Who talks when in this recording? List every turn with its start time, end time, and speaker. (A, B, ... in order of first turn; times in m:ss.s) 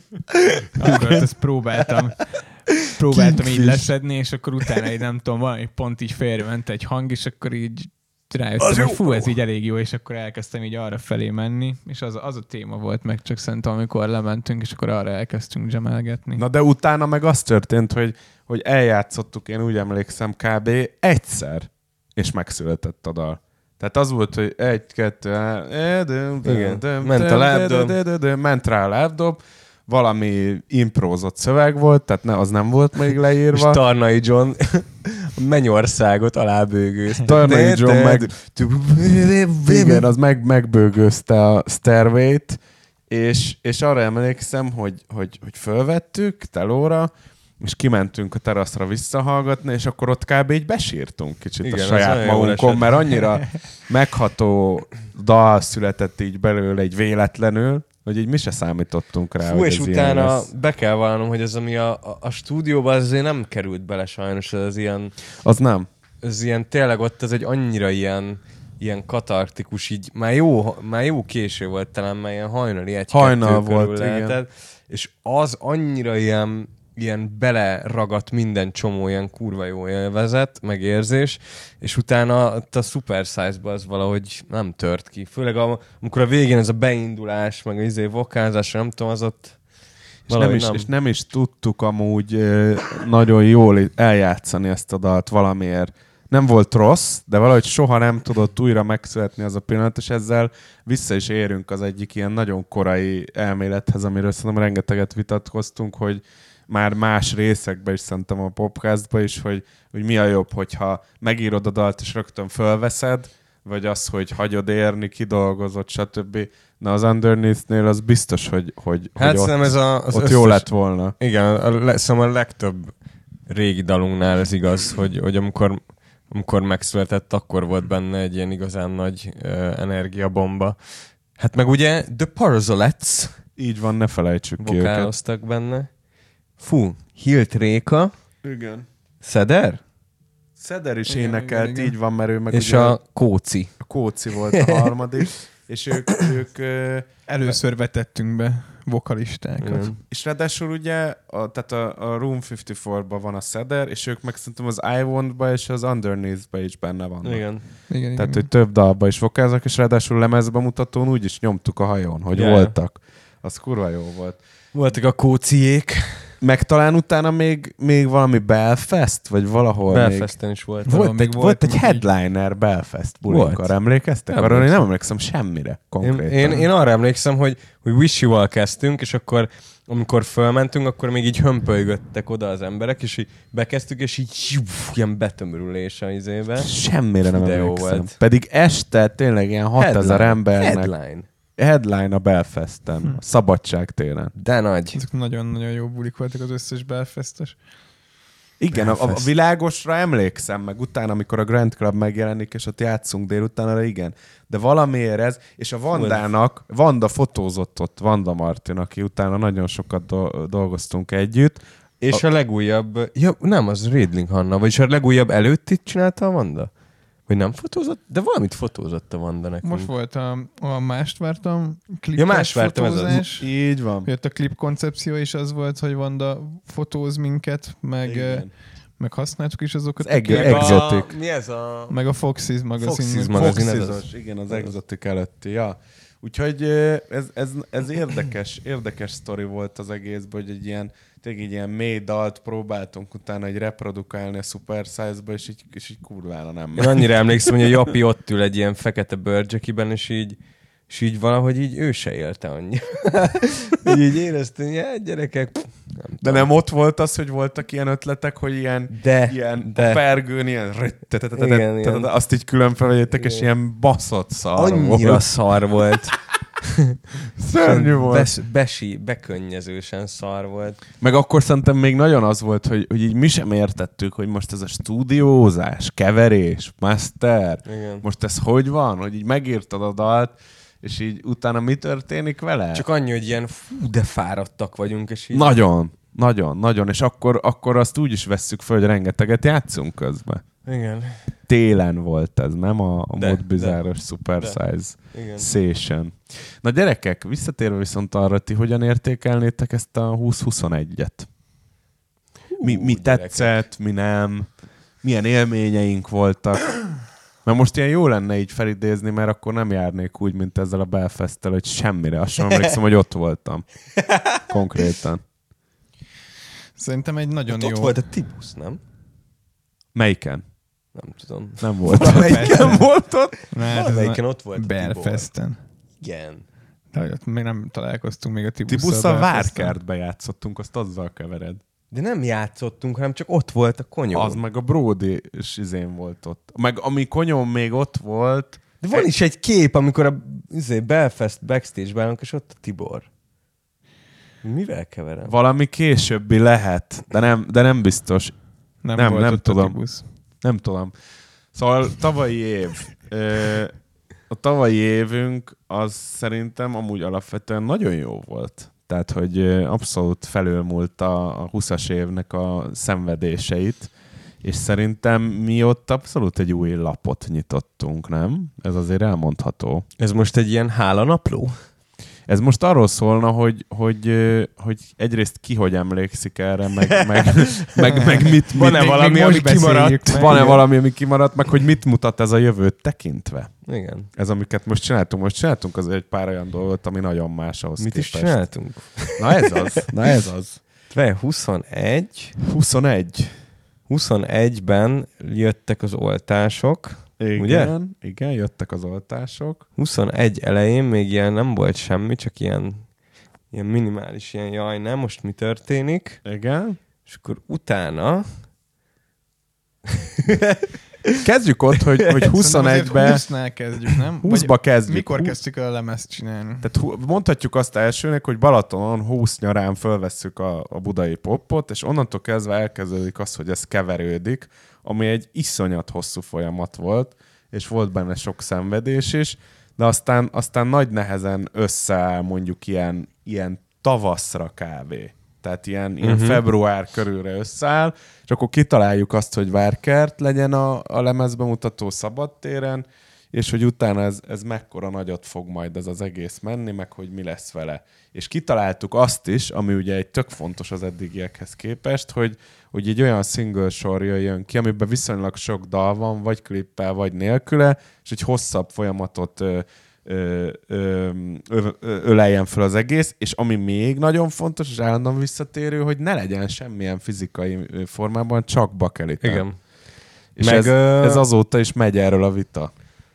0:00.7-0:16.4 A
0:03.5-0:03.9 B
0:08.6-0:08.9 B
0:16.4-0:33.8 C
0:26.4-0:28.0 B
0:33.5-0:40.1 B
0:37.2-0:38.3 C
0:39.7-1:00.5 C
0:51.6-0:53.2 B
0:59.4-1:05.2 B
1:05.4-1:05.9 C
1:06.2-1:29.6 B
1:13.1-1:14.4 C
1:30.3-1:30.9 B
1:30.3-2:01.2 C
1:59.2-2:13.4 B
2:13.6-2:15.1 C
2:14.6-2:15.9 B
2:16.6-2:18.1 B
2:18.4-2:18.9 C
2:19.2-2:19.8 B
2:20.6-2:23.0 C
2:21.1-2:22.0 A
2:22.5-2:23.8 B
2:23.8-2:27.1 C
2:24.5-2:25.3 B
2:27.3-2:29.9 A
2:29.6-2:30.0 B
2:30.1-2:44.4 C
2:37.2-2:37.6 B
2:37.9-2:38.5 A
2:42.3-2:42.8 B
2:44.7-2:46.4 B
2:46.4-2:50.3 C
2:49.9-2:51.1 B
2:50.9-2:52.0 A
2:50.9-2:56.7 C
2:53.3-2:54.8 B
2:56.0-3:08.2 B
3:06.6-3:11.0 C
3:09.8-3:11.3 B
3:11.6-3:14.3 C
3:14.4-3:15.0 B
3:14.9-3:17.6 A
3:18.6-3:32.2 C
3:18.7-3:19.3 B
3:25.9-3:26.2 B
3:32.0-3:36.7 B
3:37.3-3:39.9 B
3:39.6-3:43.5 A
3:42.2-3:43.2 B
3:43.1-3:44.1 C
3:44.0-3:50.9 A
3:48.0-3:48.5 C
3:50.0-3:51.1 C
3:50.3-3:52.0 B
3:51.9-3:53.5 A
3:52.8-3:54.7 B
3:53.3-4:07.1 C
4:06.8-4:16.5 B
4:16.2-4:25.3 C
4:18.9-4:20.0 B
4:21.4-4:22.1 B
4:23.2-4:23.5 B
4:24.6-4:26.9 B
4:27.4-4:28.3 C
4:27.6-4:30.8 B
4:31.0-4:42.8 C
4:37.6-4:38.0 B
4:42.7-4:45.6 B
4:45.3-4:50.4 C
4:50.6-4:51.3 B
4:51.5-5:01.3 C
4:53.2-4:55.5 B
5:02.5-5:03.5 B
5:02.6-5:15.2 C
5:14.0-5:14.4 B
5:16.8-5:18.0 A
5:17.5-5:18.8 B
5:19.9-5:20.4 C
5:20.9-5:25.3 B
5:21.6-5:23.3 C
5:21.9-5:22.9 A
5:23.5-5:25.6 A
5:26.0-5:26.4 B
5:26.9-5:29.8 A
5:28.7-5:31.6 C
5:31.9-5:34.4 B
5:34.1-5:39.1 C
5:38.8-5:43.1 B
5:44.4-5:45.3 B
5:45.2-5:50.9 C
5:48.8-5:50.1 A
5:51.5-6:09.8 C
6:10.0-6:11.6 B
6:12.3-6:28.6 C
6:17.0-6:20.6 B
6:23.7-6:24.1 B
6:27.8-6:29.9 B
6:29.1-6:30.6 C
6:30.9-6:32.4 B
6:32.5-6:33.4 C
6:33.9-6:37.7 B
6:37.2-6:39.7 C
6:39.8-6:42.9 B
6:43.5-6:46.2 B
6:46.2-6:46.8 C
6:47.0-6:48.3 B
6:50.3-6:50.6 B
6:51.2-6:53.3 C
6:52.3-6:56.7 A
6:54.2-6:55.4 C
6:56.6-7:49.7 C
7:16.0-7:16.4 B
7:49.2-7:51.2 B
7:50.4-7:52.7 C